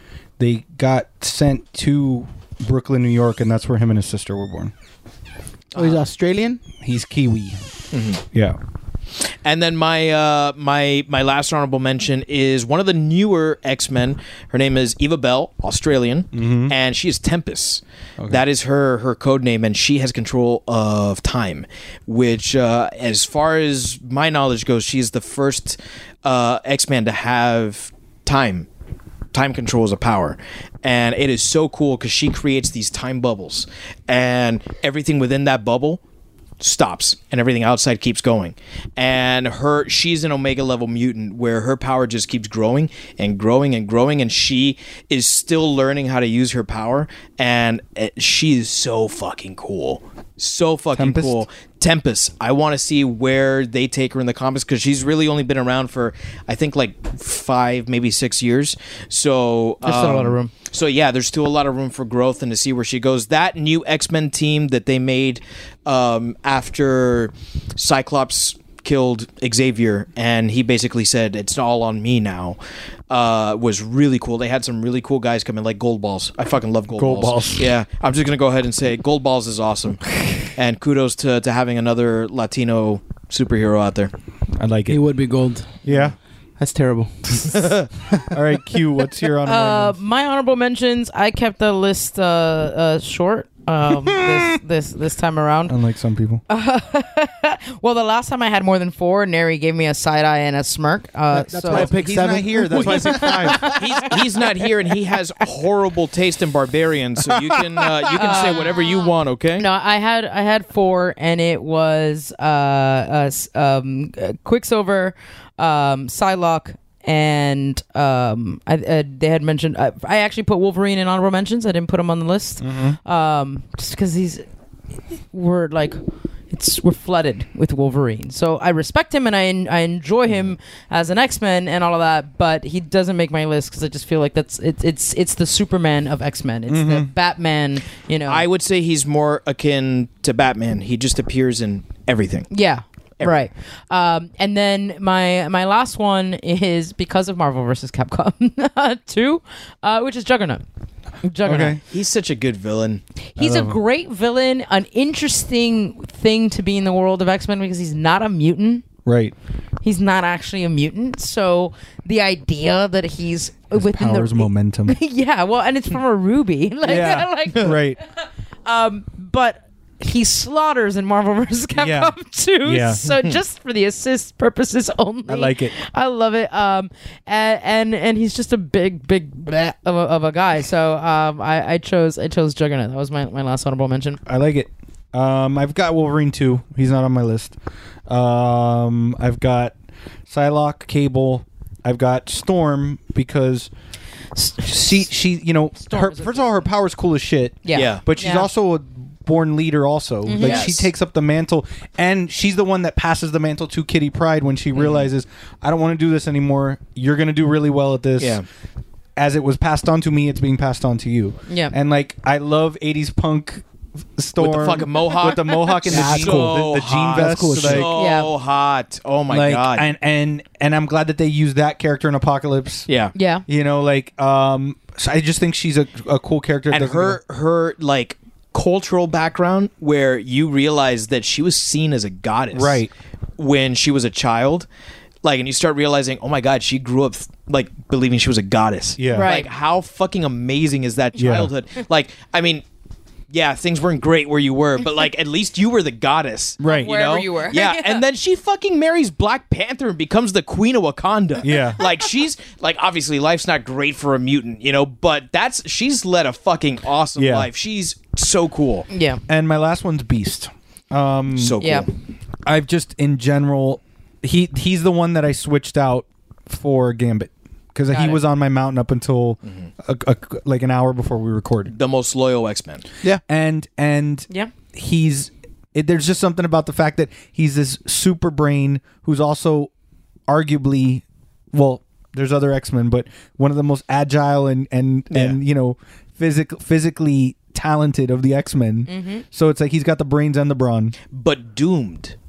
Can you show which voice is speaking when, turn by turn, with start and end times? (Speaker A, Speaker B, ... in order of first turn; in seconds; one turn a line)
Speaker A: 0.4-4.7
Speaker B: 5.7-6.0
Speaker C: 5.7-6.6
Speaker A: 6.8-7.6
Speaker B: 7.9-8.2
Speaker A: 8.3-8.6
Speaker B: 9.4-28.7
Speaker A: 16.3-16.7
Speaker B: 29.3-36.0
Speaker B: 36.6-72.6
Speaker A: 50.9-51.4
Speaker D: 59.8-60.5
Speaker B: 73.1-84.1
Speaker A: 76.9-77.7
Speaker A: 84.6-85.0
Speaker C: 84.9-85.8
Speaker A: 85.8-86.2
Speaker C: 86.6-87.5
Speaker B: 87.5-87.9
Speaker A: 88.3-90.0
Speaker D: 89.4-95.7
Speaker A: 95.7-96.4
Speaker D: 96.5-101.9
Speaker C: 101.3-104.1
Speaker A: 101.7-103.8
Speaker B: 102.8-109.6
Speaker A: 107.6-107.8
Speaker D: 108.2-124.4
Speaker A: 122.6-123.0
Speaker D: 125.3-138.4
Speaker A: 136.7-137.1
Speaker B: 138.3-142.5
Speaker D: 142.5-150.6
Speaker D: 151.2-151.8
Speaker A: 151.4-151.8
Speaker B: 151.9-153.0
Speaker D: 153.3-158.8
Speaker A: 153.4-153.8
Speaker A: 159.1-159.3
Speaker D: 159.8-167.8
Speaker A: 163.7-164.9
Speaker A: 166.8-168.0
Speaker D: 168.7-184.2
Speaker A: 171.8-173.1
Speaker A: 175.3-175.7
Speaker A: 184.2-187.5
Speaker A: 188.1-189.7
Speaker A: 190.3-193.7
Speaker D: 194.4-194.8
Speaker A: 194.6-208.4
Speaker D: 195.8-196.6
Speaker D: 197.6-198.5
Speaker B: 197.7-198.0
Speaker D: 200.2-200.7
Speaker B: 200.4-200.9
Speaker B: 204.8-205.0
Speaker B: 208.2-208.4
Speaker A: 209.2-213.6
Speaker D: 211.5-211.7
Speaker A: 214.2-217.9
Speaker B: 214.4-219.9
Speaker C: 215.9-218.0
Speaker D: 217.9-218.3
Speaker A: 219.3-222.9
Speaker B: 222.9-223.1
Speaker D: 223.1-223.4
Speaker A: 223.5-227.2
Speaker B: 226.7-232.8
Speaker A: 232.5-232.9
Speaker B: 233.4-234.7
Speaker B: 235.2-242.6
Speaker A: 239.0-239.3
Speaker D: 239.1-239.5
Speaker A: 241.1-241.5
Speaker B: 243.3-258.9
Speaker A: 246.6-247.0
Speaker D: 246.6-248.0
Speaker A: 251.4-251.9
Speaker A: 257.1-257.5
Speaker D: 258.9-259.2
Speaker A: 259.3-261.6
Speaker B: 261.3-261.9
Speaker D: 261.6-261.9
Speaker A: 262.4-271.7
Speaker D: 267.9-268.2
Speaker B: 271.7-272.8
Speaker A: 273.3-279.7
Speaker A: 280.3-290.9
Speaker B: 285.1-285.4
Speaker D: 288.9-289.2
Speaker B: 291.1-292.1